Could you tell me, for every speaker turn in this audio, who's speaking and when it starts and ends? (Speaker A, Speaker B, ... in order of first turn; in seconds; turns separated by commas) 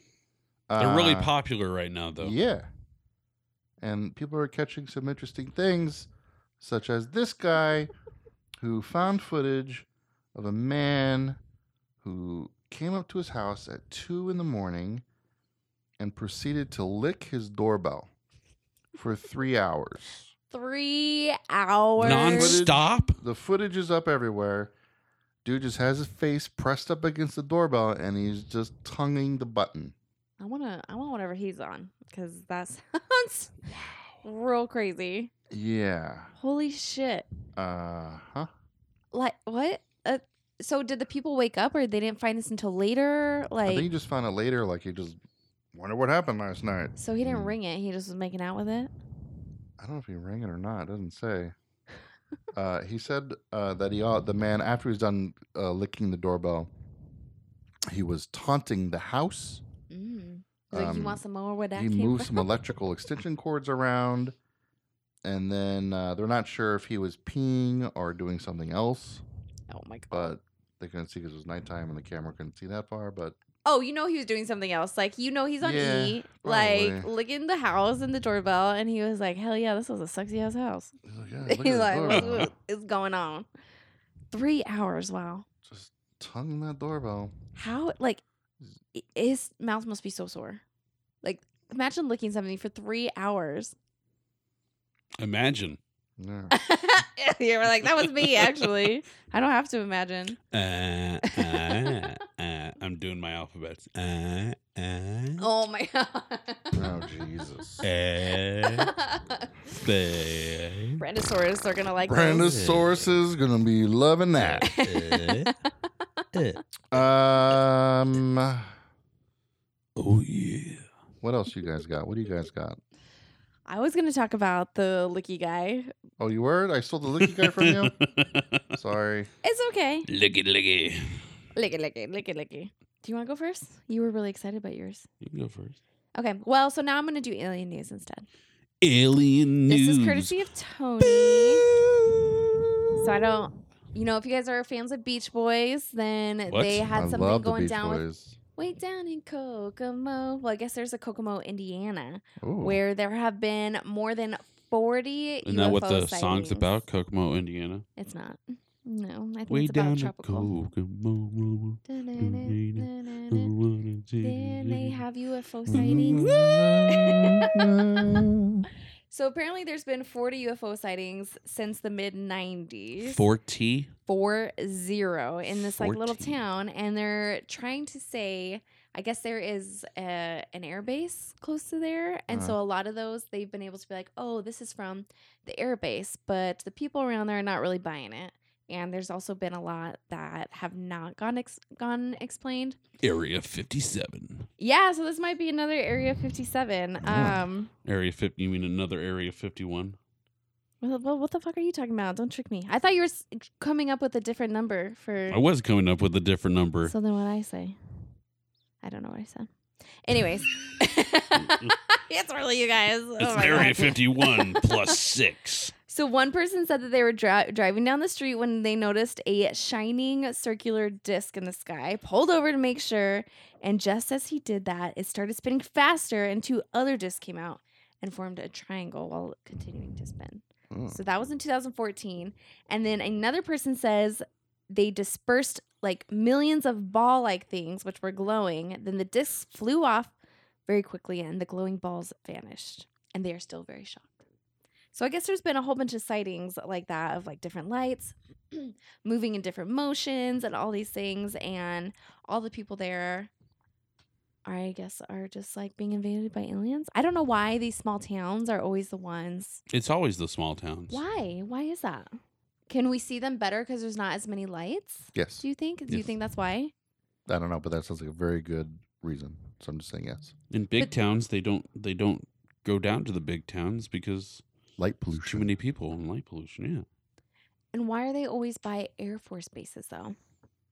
Speaker A: 0.7-1.3, Speaker B: 0.8-2.4, Speaker A: 2.2-2.7, Speaker A: 3.8-6.1, Speaker A: 6.6-7.9, Speaker A: 8.6-11.4, Speaker A: 12.0-15.0, Speaker A: 16.0-18.1, Speaker A: 18.9-20.3, Speaker C: 20.5-22.6, Speaker A: 22.0-24.7, Speaker B: 22.0-23.2, Speaker A: 25.4-29.9, Speaker C: 30.4-33.6, Speaker A: 33.7-34.0, Speaker C: 34.2-35.3, Speaker A: 35.5-36.3, Speaker C: 36.4-37.3, Speaker A: 37.6-38.5, Speaker C: 39.1-43.9, Speaker A: 43.6-45.2, Speaker A: 45.7-47.5, Speaker C: 47.0-48.9, Speaker A: 49.8-51.5, Speaker A: 52.5-56.7, Speaker A: 57.9-59.6, Speaker C: 59.9-62.5, Speaker A: 60.7-61.2, Speaker A: 61.7-64.4, Speaker A: 65.2-69.2, Speaker C: 69.7-70.3, Speaker A: 70.1-73.4, Speaker C: 73.6-80.9, Speaker A: 75.6-77.1, Speaker A: 81.0-82.5, Speaker C: 81.5-83.5, Speaker B: 82.1-82.5, Speaker C: 84.3-85.5, Speaker A: 85.7-87.3, Speaker C: 87.6-88.2, Speaker C: 88.9-90.6, Speaker C: 91.2-93.8, Speaker B: 95.2-95.8, Speaker A: 96.2-96.5, Speaker C: 96.5-100.4, Speaker B: 97.8-98.7, Speaker B: 100.5-105.4, Speaker C: 101.2-102.1, Speaker C: 105.4-107.0, Speaker A: 106.7-107.9, Speaker B: 107.8-108.9, Speaker C: 108.6-109.8, Speaker B: 109.7-111.0, Speaker C: 111.0-112.5, Speaker A: 112.1-114.7, Speaker B: 112.3-113.0, Speaker B: 114.4-115.5, Speaker C: 114.6-115.5, Speaker B: 116.3-116.6, Speaker A: 116.9-118.7, Speaker B: 120.0-120.9, Speaker A: 121.2-122.8, Speaker C: 123.7-125.9, Speaker A: 126.2-127.9, Speaker B: 127.2-128.6, Speaker A: 128.7-129.3, Speaker C: 129.4-130.1, Speaker B: 130.1-131.2, Speaker C: 131.6-135.1, Speaker B: 135.2-135.8, Speaker C: 136.1-138.2, Speaker B: 138.8-140.4, Speaker C: 139.7-141.7, Speaker B: 141.0-143.3, Speaker C: 143.0-148.0, Speaker B: 146.5-146.9, Speaker A: 146.9-148.4, Speaker C: 148.6-156.7, Speaker A: 152.4-152.8, Speaker B: 155.4-157.9, Speaker C: 158.0-160.5, Speaker B: 159.5-165.0, Speaker C: 161.9-163.5, Speaker C: 164.2-166.3, Speaker A: 165.7-168.7, Speaker B: 165.7-166.8, Speaker C: 166.9-168.2, Speaker C: 169.1-173.2, Speaker B: 173.0-173.9, Speaker C: 174.1-192.8, Speaker B: 175.5-176.4, Speaker A: 182.3-182.6, Speaker B: 193.0-194.5, Speaker C: 194.6-197.7, Speaker A: 197.0-197.4, Speaker B: 197.8-200.0, Speaker C: 200.8-205.4, Speaker B: 205.3-206.9, Speaker C: 206.8-207.8, Speaker C: 208.8-209.5, Speaker C: 210.0-215.0, Speaker B: 211.4-211.7, Speaker B: 213.2-215.7, Speaker C: 215.9-240.1, Speaker A: 230.7-231.0, Speaker C: 240.7-244.2, Speaker C: 244.9-253.3, Speaker C: 254.4-259.6, Speaker B: 259.7-261.0, Speaker C: 260.9-262.1, Speaker C: 262.7-266.7, Speaker A: 265.1-265.4, Speaker A: 267.3-270.3, Speaker B: 270.5-274.4, Speaker A: 274.8-275.5, Speaker B: 275.2-276.9, Speaker C: 277.7-280.2